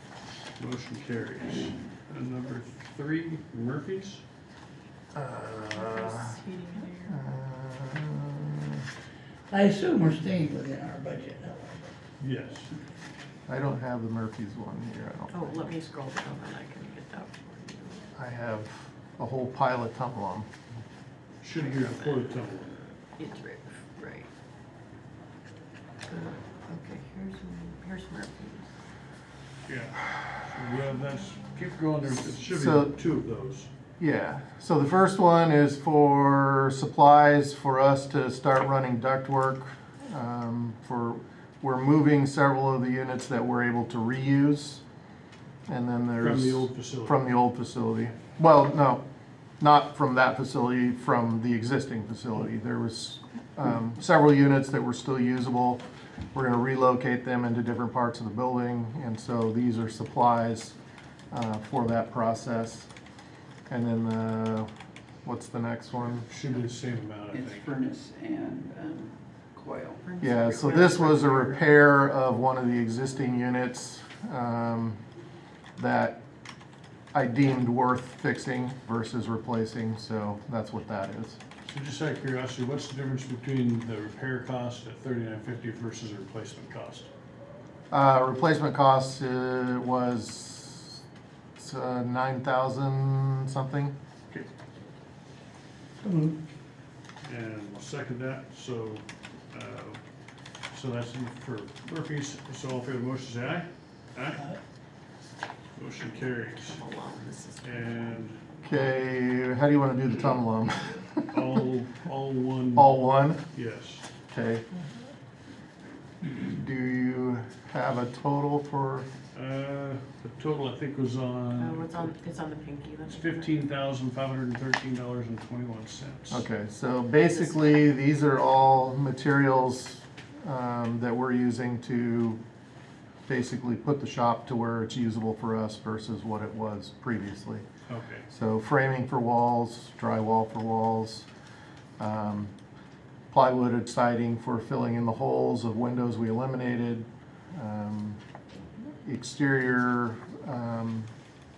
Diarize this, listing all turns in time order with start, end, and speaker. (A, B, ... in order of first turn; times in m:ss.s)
0:00.6-0:04.2 A
0:05.1-0:06.4 B
0:05.7-0:07.2 C
0:07.1-0:08.8 B
0:09.5-0:11.9 D
0:12.2-0:12.7 A
0:13.5-0:15.7 B
0:15.3-0:18.0 C
0:18.1-0:20.5 B
0:21.4-0:22.8 A
0:21.6-0:22.4 C
0:23.1-0:24.3 C
0:26.0-0:28.7 C
0:29.7-0:33.7 A
0:32.2-0:33.0 B
0:34.0-0:44.8 B
0:45.7-0:49.0 B
0:46.2-0:47.3 A
0:49.6-0:55.8 B
0:56.3-1:00.8 B
1:01.3-1:02.9 B
1:03.7-1:04.7 B
1:05.2-1:06.3 B
1:06.2-1:07.7 A
1:07.3-1:10.0 E
1:10.0-1:11.6 C
1:10.2-1:15.0 B
1:15.8-1:16.2 B
1:17.1-1:21.4 B
1:21.6-1:27.1 A
1:27.9-1:31.0 B
1:31.6-1:33.9 B
1:36.0-1:36.4 D
1:37.2-1:40.0 A
1:40.7-1:44.5 A
1:45.8-1:46.8 A
1:46.6-1:48.2 C
1:47.6-1:48.7 A
1:48.6-1:51.5 B
1:51.3-1:52.9 A
1:52.7-1:53.4 B
1:53.5-1:54.0 A
1:54.3-1:54.6 B
1:56.2-1:59.1 B
1:59.3-2:02.1 A
2:01.6-2:03.7 C
2:03.1-2:06.4 A
2:06.3-2:12.4 B
2:07.3-2:07.7 C
2:13.3-2:17.6 B
2:17.9-2:18.2 A
2:18.3-2:21.2 B
2:22.0-2:22.5 B
2:23.3-2:28.2 B
2:29.0-2:31.1 B